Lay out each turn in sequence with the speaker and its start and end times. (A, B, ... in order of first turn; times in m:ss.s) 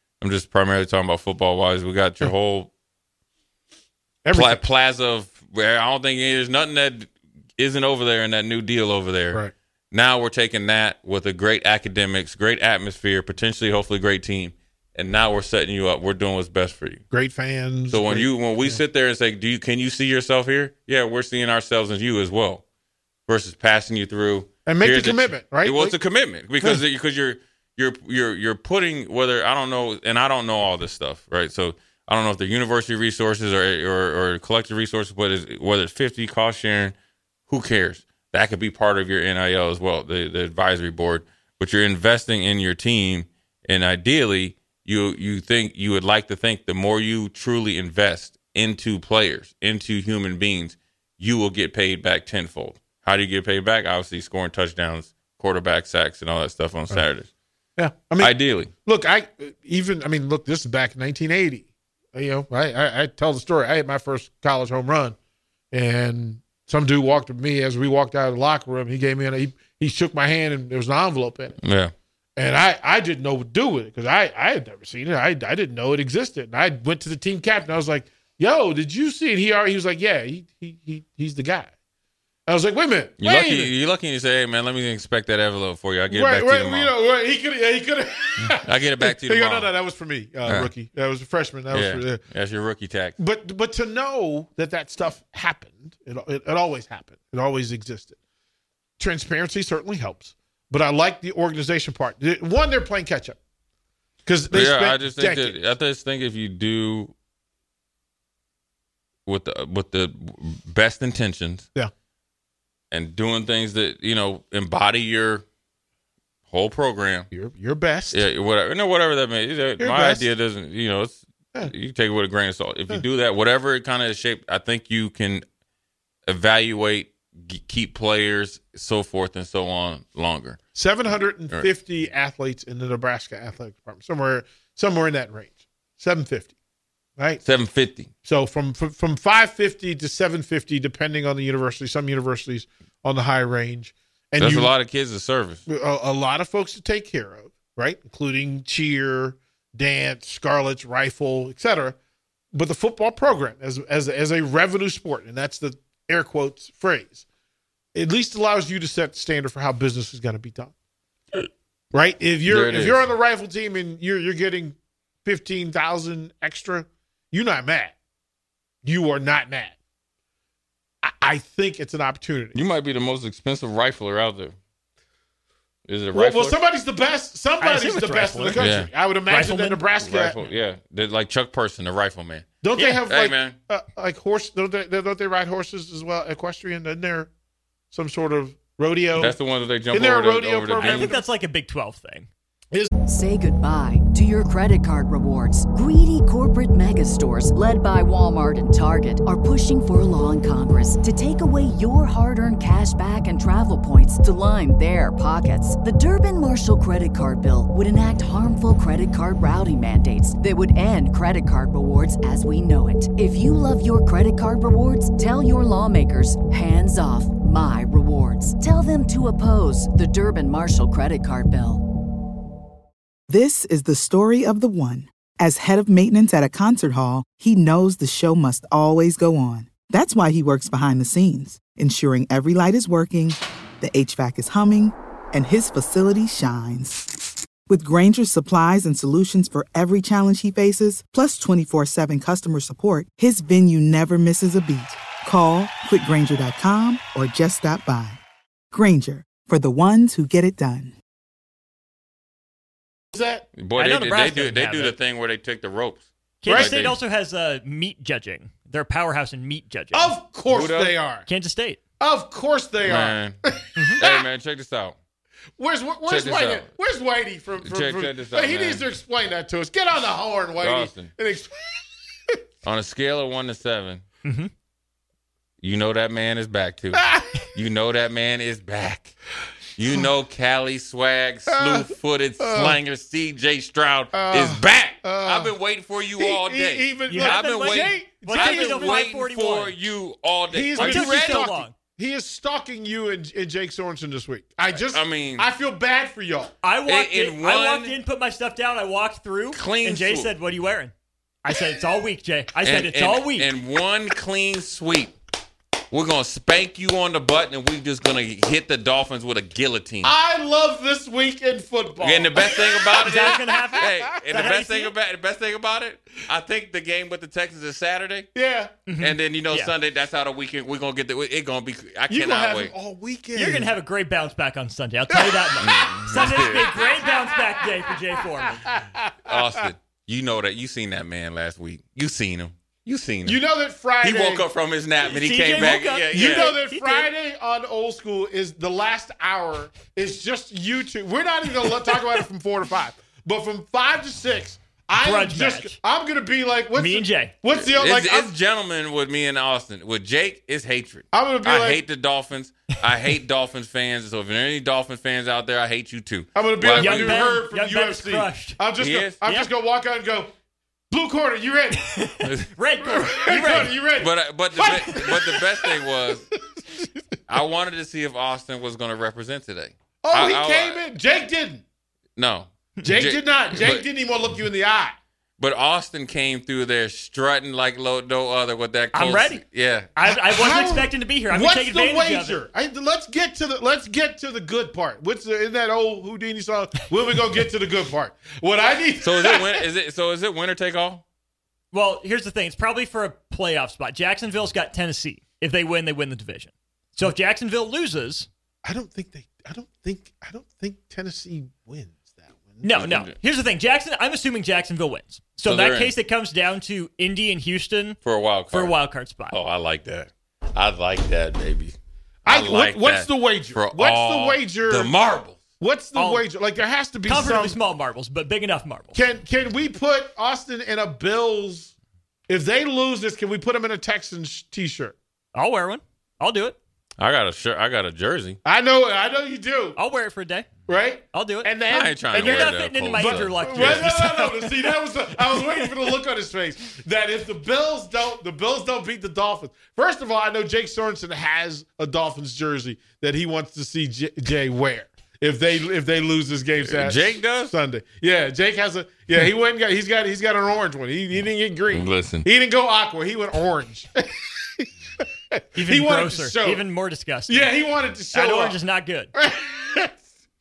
0:00.2-0:02.7 A
0:04.2-0:04.6 B
0:04.3-0:17.0 A
0:17.1-0:18.8 B
0:17.9-0:22.6 A
0:23.3-0:37.0 A
0:24.6-0:26.0 B
0:37.5-0:57.3 A
0:57.8-1:05.2 B
0:58.2-0:58.7 A
1:05.7-1:11.6 B
1:11.6-1:11.9 A
1:12.4-1:21.7 B
1:22.5-1:23.7 B
1:23.2-1:26.9 A
1:26.1-1:32.2 B
1:28.4-1:29.7 A
1:30.4-1:30.7 A
1:31.7-1:33.2 A
1:33.2-1:38.2 B
1:39.0-1:43.4 B
1:44.2-1:45.6 B
1:44.5-1:47.1 A
1:49.2-1:51.7 A
1:52.9-1:55.4 A
1:56.5-1:57.3 A
1:57.3-1:58.2 B
1:58.1-2:05.4 A
1:59.8-2:00.3 B
2:06.3-2:10.6 A
2:10.7-2:16.5 B
2:17.2-2:17.4 B
2:17.4-2:18.1 A
2:18.2-2:24.7 B
2:24.4-2:25.6 A
2:25.7-2:32.0 B
2:32.5-2:37.2 B
2:37.9-2:40.7 B
2:41.9-2:48.0 B
2:42.4-2:43.1 A
2:48.8-2:49.8 B
2:51.0-2:52.7 B
2:52.5-2:54.6 A
2:55.9-2:56.6 A
2:56.1-3:00.4 B
2:57.6-2:58.7 C
2:58.6-2:58.9 A
2:59.2-2:59.8 C
2:59.9-3:03.6 A
3:02.6-3:07.3 B
3:07.9-3:09.4 B
3:09.2-3:11.2 A
3:09.9-3:11.2 B
3:10.7-3:12.3 C
3:13.1-3:41.8 D
3:43.3-3:57.1 E
3:57.7-4:08.2 E
4:08.7-4:11.0 E
4:13.1-4:13.5 B
4:13.5-4:17.0 A
4:13.7-4:15.0 C
4:16.4-4:20.2 C
4:16.5-4:16.8 B
4:19.9-4:21.3 B
4:20.5-4:21.0 A
4:21.2-4:21.8 C
4:22.0-4:24.3 B
4:22.8-4:23.4 A
4:24.0-4:25.0 A
4:25.6-4:31.6 B
4:26.0-4:26.7 A
4:27.6-4:28.9 A
4:30.6-4:31.1 A
4:32.6-4:34.0 A
4:34.2-4:34.5 C
4:35.6-4:37.0 A
4:36.9-4:37.3 B
4:37.5-4:39.1 A
4:39.8-4:51.5 A
4:41.5-4:41.8 B
4:42.4-4:42.8 B
4:44.1-4:45.5 B
4:46.2-4:49.1 B
4:47.1-4:49.8 C
4:50.5-4:56.5 B
4:50.7-4:51.8 C
4:54.7-4:55.5 A
4:56.6-5:00.9 C
4:56.8-4:58.0 A
4:59.5-5:00.3 A
5:01.4-5:03.5 C
5:02.6-5:05.1 A
5:05.9-5:10.1 A
5:10.0-5:14.3 B
5:12.0-5:18.3 A
5:13.1-5:14.9 C
5:18.3-5:18.7 B
5:18.9-5:19.7 C
5:19.0-5:22.7 A
5:22.1-5:23.7 B
5:23.3-5:28.6 C
5:25.1-5:29.3 B
5:25.6-5:26.7 A
5:29.2-5:33.4 A
5:33.2-5:34.4 B
5:34.0-5:36.6 A
5:35.0-5:37.1 C
5:36.1-5:48.3 B
5:45.0-5:45.8 C
5:46.7-5:47.4 C
5:47.5-5:57.4 A
5:51.1-5:51.8 B
5:56.3-6:00.3 B
5:56.7-5:58.6 C
5:58.7-5:59.2 A
5:59.2-5:59.5 C
6:00.9-6:02.2 B
6:01.8-6:03.8 C
6:02.8-6:05.8 B
6:04.0-6:06.2 A
6:06.6-6:06.9 B
6:07.3-6:10.8 A
6:10.0-6:11.6 B
6:12.2-6:13.9 A
6:12.8-6:15.0 B
6:15.4-6:19.9 A
6:18.9-6:22.4 C
6:20.0-6:29.6 B
6:29.0-6:31.0 A
6:31.7-6:38.3 C
6:38.6-6:42.8 B
6:42.6-6:48.0 C
6:42.8-6:43.2 A
6:45.4-6:46.0 A
6:48.0-6:48.7 A
6:48.5-6:49.4 C
6:49.3-6:55.4 A
6:52.2-6:55.0 B
6:55.6-6:57.6 B
6:55.9-6:56.2 C
6:57.0-6:59.0 C
6:58.9-7:01.7 B
7:02.3-7:05.0 B
7:05.3-7:06.6 C
7:07.0-7:08.4 A
7:08.4-7:09.8 B
7:09.8-7:10.5 C
7:10.7-7:36.6 B
7:11.1-7:16.0 C
7:11.7-7:13.9 A
7:26.6-7:27.5 A
7:31.7-7:32.3 A
7:35.5-7:37.5 C
7:37.3-7:38.6 B
7:38.1-7:39.1 C
7:39.1-7:40.0 B